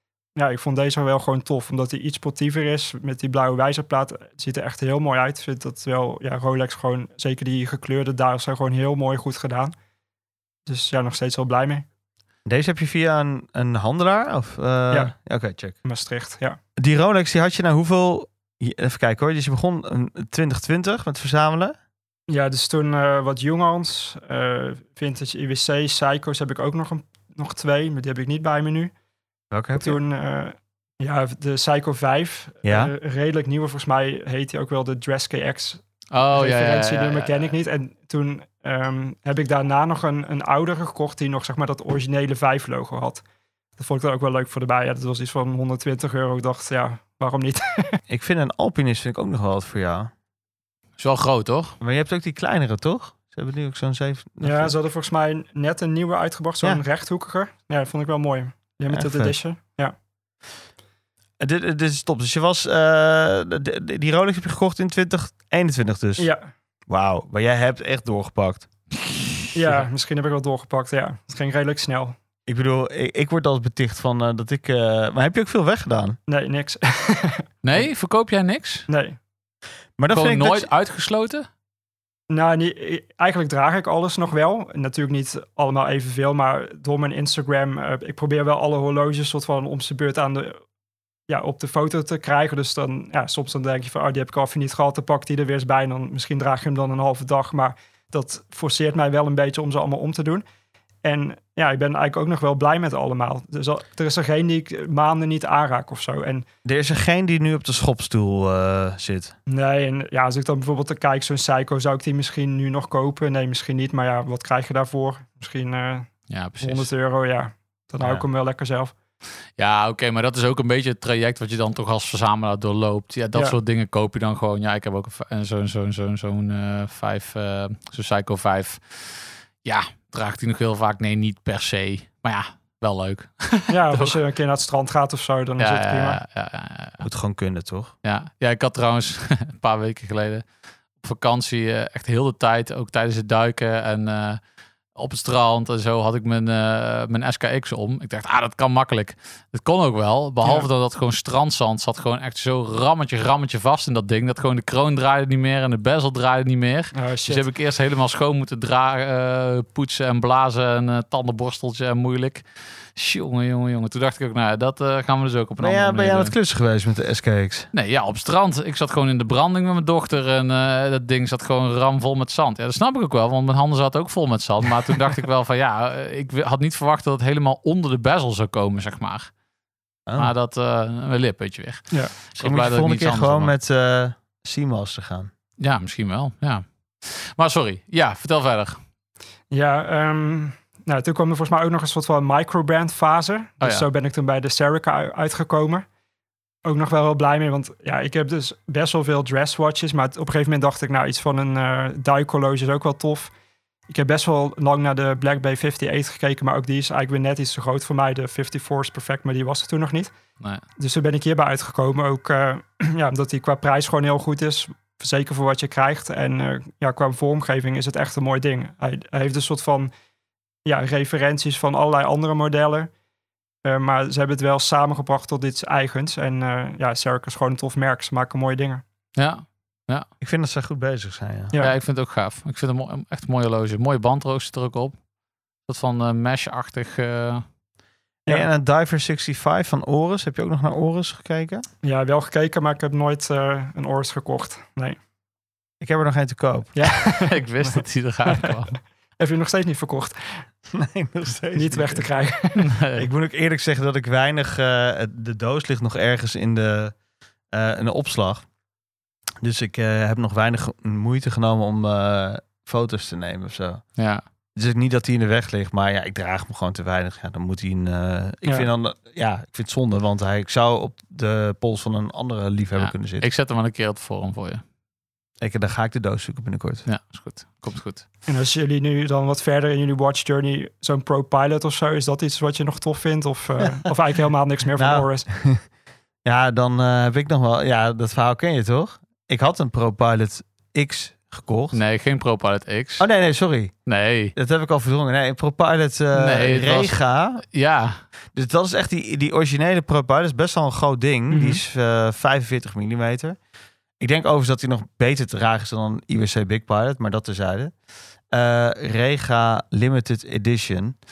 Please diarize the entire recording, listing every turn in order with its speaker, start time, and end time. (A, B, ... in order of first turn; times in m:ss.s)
0:00.4-0:09.8 A
0:10.6-0:11.9 A
0:12.5-0:15.8 B
0:15.8-0:16.6 A
0:16.8-0:21.8 B
0:22.3-0:28.9 A
0:29.5-0:30.0 B
0:29.8-0:43.2 A
0:32.6-0:32.9 B
0:36.1-0:37.5 C
0:43.8-0:48.0 A
0:48.1-0:50.1 B
0:51.0-0:51.8 C
0:51.8-0:54.7 B
0:54.4-1:00.0 A
0:58.9-0:59.3 B
1:01.4-1:06.3 B
1:06.2-1:06.5 A
1:06.9-1:08.7 B
1:09.0-1:09.8 C
1:09.5-1:12.2 A
1:12.5-1:16.2 B
1:16.3-1:17.8 A
1:17.6-1:18.9 C
1:18.9-1:19.2 A
1:20.0-1:20.7 B
1:20.1-1:21.5 C
1:22.3-1:30.6 A
1:31.3-1:40.4 A
1:41.0-1:46.5 A
1:46.6-1:49.4 B
1:49.5-1:56.1 A
1:56.3-1:56.9 C
1:56.6-1:58.9 A
1:59.6-2:14.2 C
2:13.7-2:16.2 A
2:15.6-2:17.0 C
2:17.0-2:17.9 B
2:18.0-2:20.4 C
2:21.0-2:24.4 C
2:25.0-2:46.3 C
2:30.4-2:30.7 A
2:36.9-2:37.4 A
2:45.6-2:47.7 B
2:47.7-2:59.3 C
3:00.1-3:00.3 B
3:00.2-3:03.5 C
3:02.4-3:05.3 B
3:05.6-3:08.8 C
3:09.5-3:15.9 A
3:13.6-3:13.9 C
3:16.6-3:23.3 A
3:23.9-3:30.1 A
3:30.8-3:39.9 A
3:40.6-3:42.9 A
3:43.6-3:48.8 A
3:49.2-3:50.1 C
3:50.2-3:51.5 B
3:51.6-3:55.0 C
3:55.7-3:57.4 C
3:58.3-4:01.6 B
4:01.8-4:05.0 A
4:05.8-4:06.9 B
4:06.8-4:10.4 A
4:07.1-4:08.8 C
4:10.7-4:12.1 B
4:11.6-4:12.7 A
4:12.6-4:13.1 C
4:12.9-4:17.0 B
4:17.5-4:18.4 B
4:19.4-4:23.8 B
4:24.0-4:24.2 C
4:24.6-4:33.3 B
4:32.8-4:34.6 C
4:35.4-4:36.8 B
4:36.9-4:38.0 C
4:38.3-4:45.3 A
4:44.8-4:45.6 B
4:46.2-4:51.8 B
4:51.7-4:53.1 C
4:53.0-4:53.8 B
4:53.9-4:54.3 C
4:54.3-4:57.4 B
4:56.1-4:57.0 C
4:57.5-4:58.0 C
4:58.3-5:03.4 B
5:01.3-5:01.6 A
5:04.0-5:07.7 B
5:08.3-5:11.0 B